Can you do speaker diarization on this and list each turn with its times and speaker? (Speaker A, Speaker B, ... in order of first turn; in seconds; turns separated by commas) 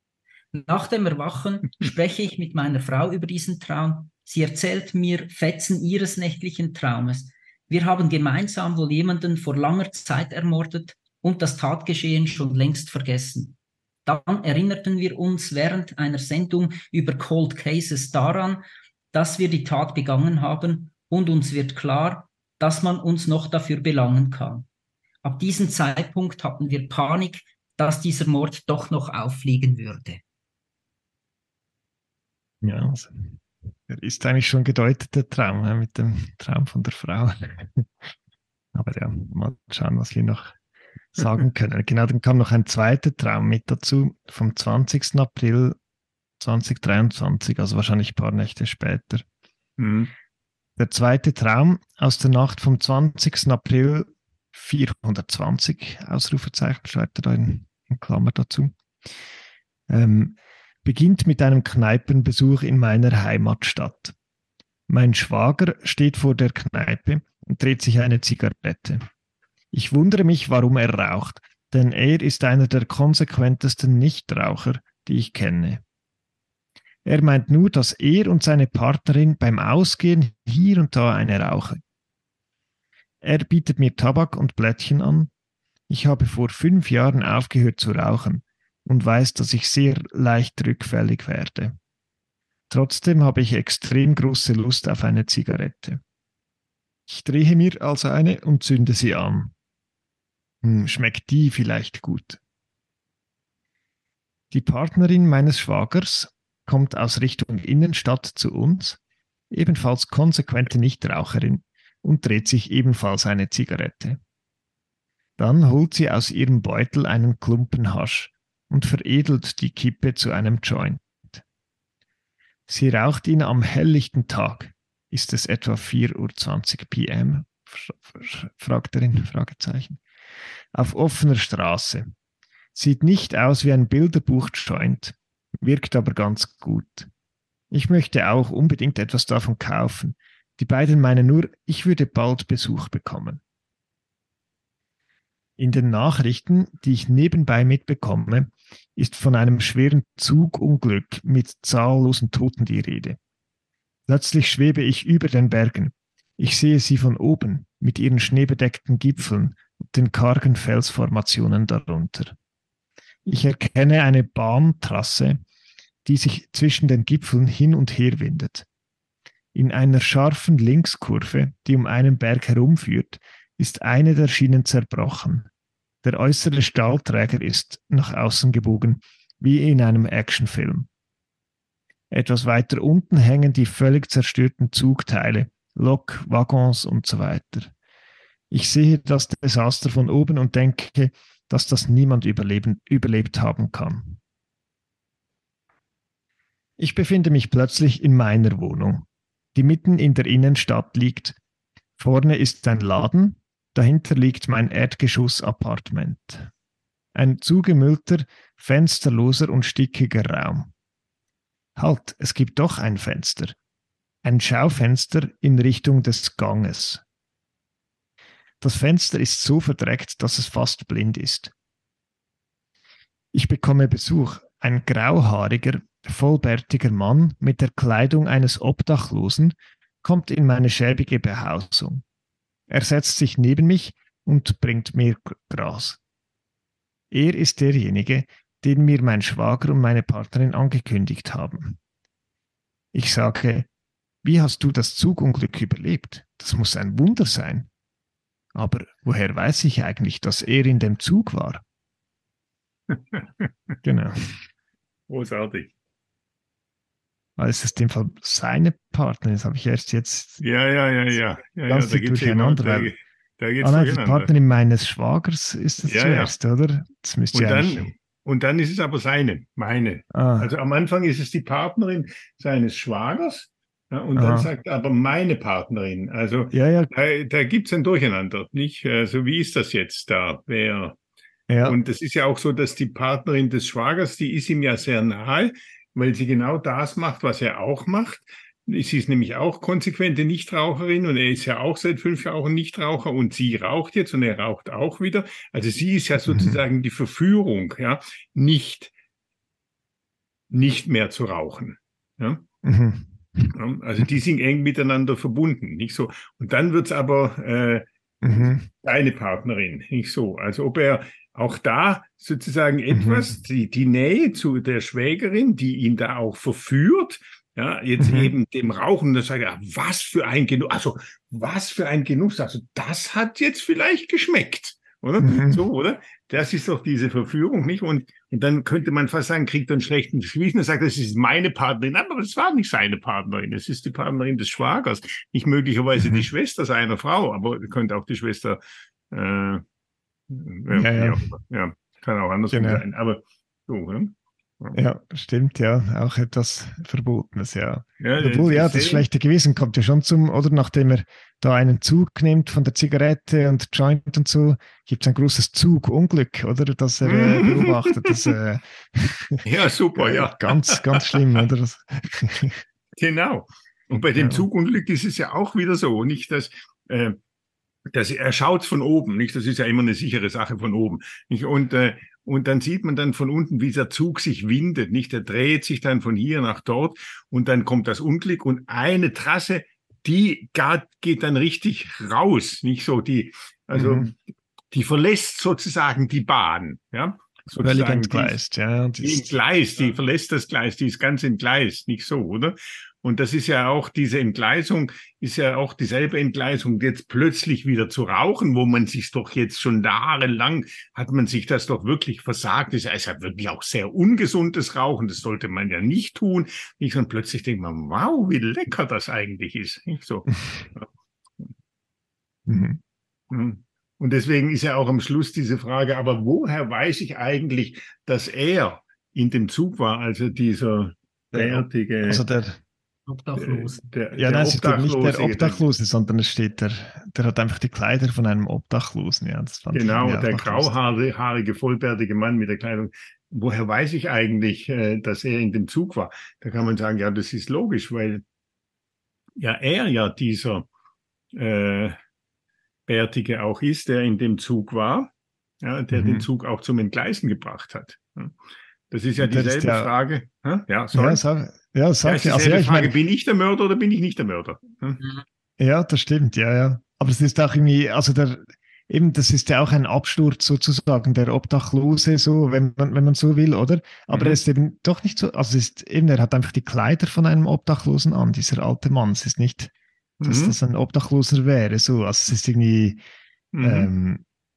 Speaker A: 0.5-24.6, Speaker A: 25.2-30.2, Speaker B: 32.6-37.9, Speaker B: 38.7-40.5, Speaker B: 41.1-45.8, Speaker B: 46.4-49.2, Speaker C: 49.8-50.1, Speaker B: 50.8-58.7, Speaker B: 59.9-64.1, Speaker B: 64.9-69.0, Speaker B: 69.7-75.8, Speaker B: 77.0-81.8, Speaker B: 83.2-85.3, Speaker B: 85.9-91.8, Speaker B: 92.7-96.0, Speaker B: 97.1-99.5, Speaker B: 100.6-102.4, Speaker B: 104.5-109.0, Speaker B: 109.5-114.2, Speaker B: 115.4-121.4, Speaker B: 122.7-130.0, Speaker B: 130.7-132.1, Speaker B: 132.7-137.1, Speaker B: 137.7-143.4, Speaker B: 145.6-153.2, Speaker B: 154.1-162.3, Speaker B: 163.2-165.4, Speaker B: 166.0-168.7, Speaker B: 169.5-175.5, Speaker B: 176.0-180.9, Speaker B: 182.1-187.7, Speaker B: 188.5-194.2, Speaker B: 196.8-201.4, Speaker B: 202.0-206.5, Speaker B: 207.1-210.7, Speaker B: 211.8-213.5, Speaker B: 214.2-217.0, Speaker B: 218.6-221.5, Speaker B: 223.3-232.0, Speaker B: 232.7-236.0, Speaker B: 237.1-241.8, Speaker B: 242.9-243.7, Speaker B: 244.2-247.7, Speaker B: 248.5-251.6, Speaker C: 252.9-253.7, Speaker B: 253.8-254.4, Speaker C: 255.1-255.7, Speaker B: 257.4-260.4, Speaker C: 260.4-264.3, Speaker B: 261.7-262.9, Speaker B: 263.6-267.9, Speaker C: 265.8-266.3, Speaker C: 267.3-281.0, Speaker B: 270.1-270.5, Speaker B: 274.1-274.5, Speaker B: 276.5-276.9, Speaker B: 281.5-281.8, Speaker C: 281.6-298.9, Speaker B: 296.2-296.6, Speaker C: 300.5-302.4, Speaker B: 302.6-303.5, Speaker C: 303.5-338.6, Speaker B: 308.2-308.7, Speaker B: 312.9-313.3, Speaker B: 318.0-318.3, Speaker B: 325.2-325.6, Speaker B: 336.0-336.3, Speaker C: 339.1-339.6, Speaker C: 340.3-344.8, Speaker B: 340.7-341.2, Speaker B: 342.5-342.8, Speaker B: 344.7-362.6, Speaker C: 348.0-349.1, Speaker C: 357.0-358.3, Speaker C: 359.4-361.2, Speaker C: 363.0-367.2, Speaker B: 364.2-364.4, Speaker C: 367.9-384.2, Speaker B: 383.7-384.1, Speaker C: 384.7-388.4, Speaker B: 387.6-389.4, Speaker C: 389.0-410.9, Speaker B: 412.5-412.8, Speaker C: 413.3-422.2, Speaker B: 421.3-422.6, Speaker A: 423.1-423.8, Speaker C: 423.4-425.6, Speaker B: 424.1-430.7, Speaker C: 429.7-438.2, Speaker C: 439.4-440.7, Speaker C: 441.3-442.0, Speaker C: 442.9-445.1, Speaker C: 445.6-448.3, Speaker B: 445.9-446.3, Speaker C: 448.9-451.2, Speaker B: 449.2-449.9, Speaker B: 450.9-452.9, Speaker C: 452.0-455.0, Speaker B: 455.6-469.7, Speaker C: 464.1-464.4, Speaker C: 470.2-470.6, Speaker B: 470.2-473.0, Speaker C: 473.5-473.9, Speaker B: 473.6-474.2